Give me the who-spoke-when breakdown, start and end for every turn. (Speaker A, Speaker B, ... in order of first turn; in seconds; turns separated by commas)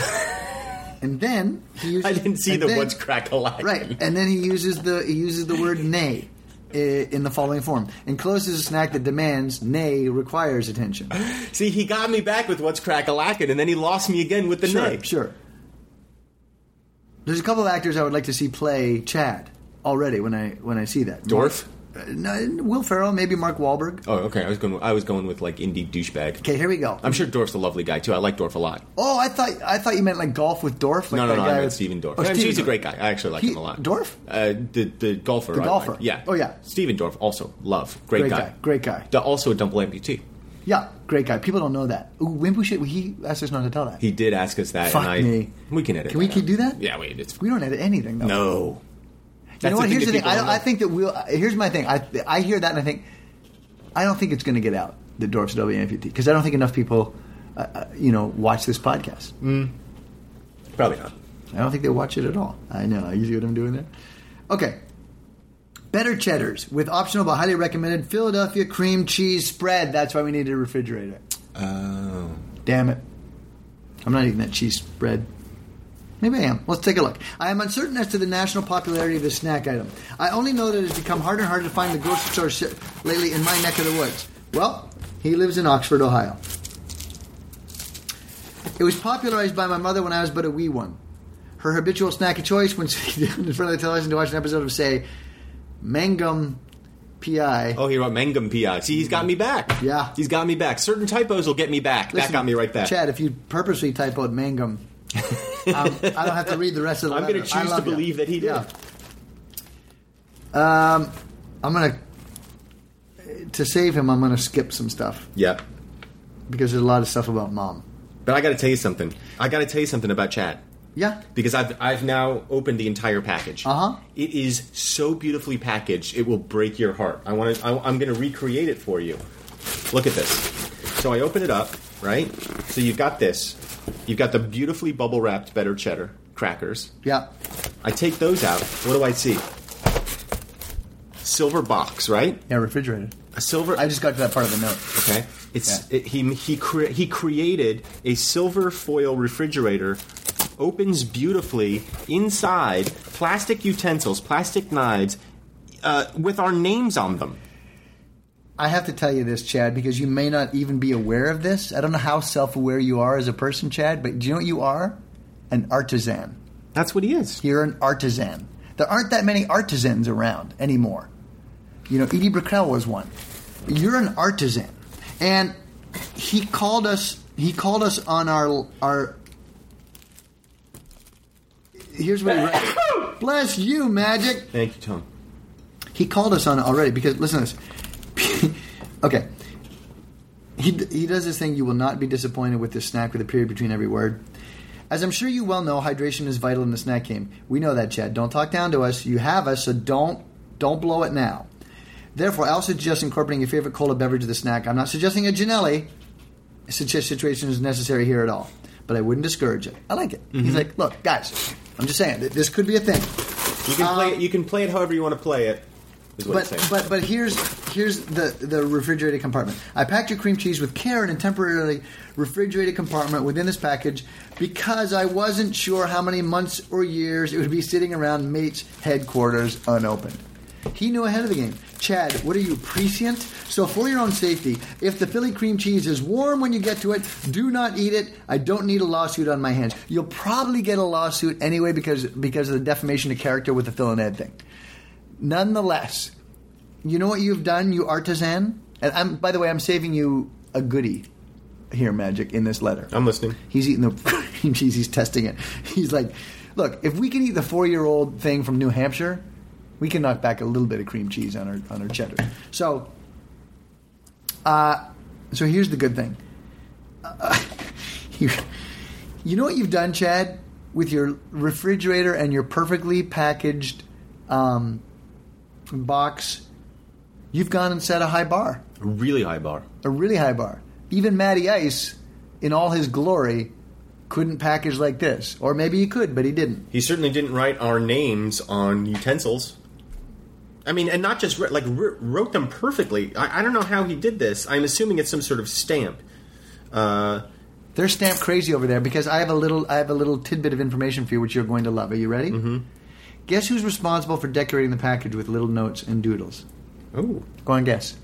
Speaker A: 1.0-3.0, Speaker B: 1.8-4.0, Speaker A: 3.6-11.1, Speaker B: 11.1-15.1, Speaker A: 14.6-15.3, Speaker A: 17.2-24.0, Speaker B: 21.3-21.7, Speaker B: 24.1-26.4, Speaker A: 26.4-27.2, Speaker B: 27.0-28.9, Speaker A: 29.0-32.8, Speaker B: 31.1-38.5, Speaker A: 33.4-34.2, Speaker A: 35.5-36.5, Speaker A: 38.1-39.1, Speaker B: 39.1-40.2, Speaker A: 40.6-44.0, Speaker B: 44.0-47.4, Speaker A: 44.9-45.5, Speaker A: 46.1-46.8, Speaker A: 47.4-48.5, Speaker B: 48.2-48.8, Speaker B: 49.6-50.6, Speaker A: 49.6-53.0, Speaker A: 53.9-59.4, Speaker B: 59.4-59.7, Speaker B: 60.8-61.1, Speaker A: 61.5-63.9, Speaker A: 64.5-64.8, Speaker A: 65.9-71.2, Speaker B: 71.5-72.5, Speaker A: 72.6-73.0, Speaker A: 74.0-75.3, Speaker A: 76.2-86.4, Speaker A: 88.8-91.0, Speaker A: 91.6-95.0, Speaker A: 95.8-96.6, Speaker A: 97.2-97.8, Speaker B: 97.8-102.9, Speaker A: 99.8-100.2, Speaker A: 102.1-104.8, Speaker B: 105.3-106.4, Speaker A: 105.7-108.7, Speaker B: 107.1-108.7, Speaker A: 110.5-112.0, Speaker A: 113.2-115.3, Speaker B: 115.4-115.6, Speaker A: 116.5-117.8, Speaker B: 118.2-120.6, Speaker A: 121.0-121.2, Speaker B: 121.3-129.2, Speaker A: 123.6-124.0, Speaker B: 129.9-136.9, Speaker A: 137.0-137.3, Speaker B: 137.8-139.5, Speaker B: 141.2-142.4, Speaker A: 142.5-143.1, Speaker B: 143.3-143.9, Speaker A: 143.7-145.0, Speaker B: 144.9-150.0, Speaker B: 150.6-155.2, Speaker B: 155.8-157.4, Speaker A: 158.6-166.4, Speaker B: 166.8-167.4, Speaker A: 167.4-171.1, Speaker A: 171.9-173.1, Speaker A: 173.7-175.5, Speaker A: 176.1-179.2, Speaker A: 181.9-184.5, Speaker B: 184.5-185.1, Speaker A: 185.9-187.6, Speaker A: 188.1-189.3, Speaker A: 190.6-194.2, Speaker A: 194.9-201.5, Speaker A: 202.1-205.9, Speaker A: 206.7-214.2, Speaker B: 210.3-210.7, Speaker B: 213.6-215.7, Speaker B: 216.2-216.7, Speaker A: 216.3-230.2, Speaker A: 230.7-244.4, Speaker A: 245.2-246.1, Speaker A: 246.8-251.1, Speaker A: 251.7-252.9, Speaker B: 252.9-253.4, Speaker A: 253.5-259.2, Speaker A: 259.8-262.9, Speaker A: 264.4-266.2, Speaker A: 267.0-268.5, Speaker A: 269.2-274.8, Speaker A: 275.7-276.4, Speaker A: 277.3-278.6, Speaker B: 278.8-279.6, Speaker A: 279.8-283.5, Speaker A: 284.1-286.6, Speaker B: 286.7-289.6, Speaker B: 290.6-296.0, Speaker B: 296.7-297.2, Speaker A: 297.8-302.5, Speaker B: 302.3-302.6, Speaker A: 303.3-306.4, Speaker B: 306.9-307.3, Speaker A: 307.4-308.0